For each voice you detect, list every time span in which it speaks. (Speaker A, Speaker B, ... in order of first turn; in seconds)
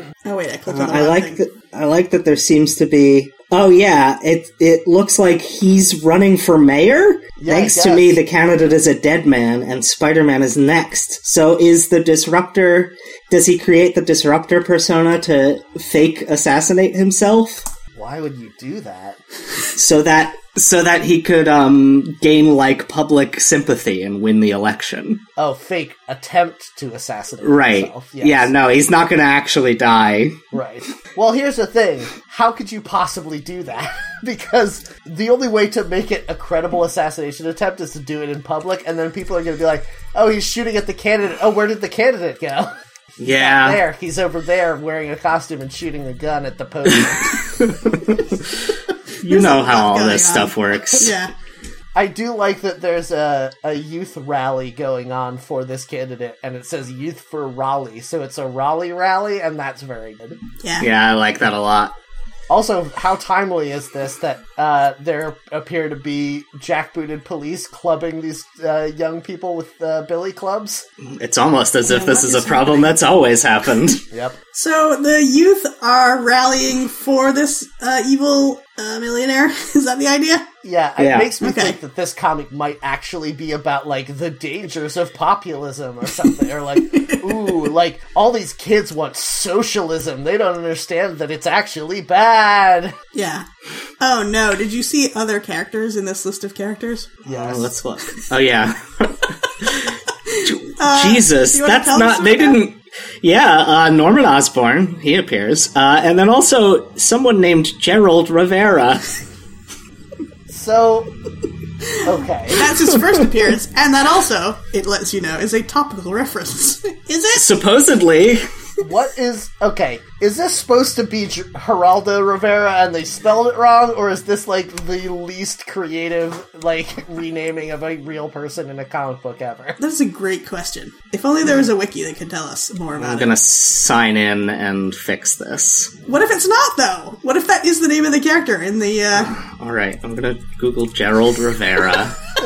Speaker A: 0.2-1.4, 49.2-51.3, 60.6-60.9, 71.8-73.0, 74.5-80.5, 81.4-81.8, 86.8-87.5, 93.1-93.5, 94.0-97.1, 100.3-102.6, 112.5-117.5, 129.8-133.3, 136.1-139.4
Speaker B: 0.7-17.6, 19.8-25.2, 27.4-30.4, 43.2-43.8, 46.9-48.2, 49.2-51.1, 60.8-62.0, 71.0-74.0, 81.0-81.3, 97.3-109.0, 117.3-118.5, 133.0-135.9, 139.2-142.2
Speaker C: 7.4-8.2, 17.9-19.2, 25.4-28.5, 30.5-42.7, 43.2-47.4, 52.0-60.4, 62.5-70.8, 74.1-74.4, 80.6-93.0, 97.3-97.7, 110.5-111.1, 112.0-112.7, 118.8-129.8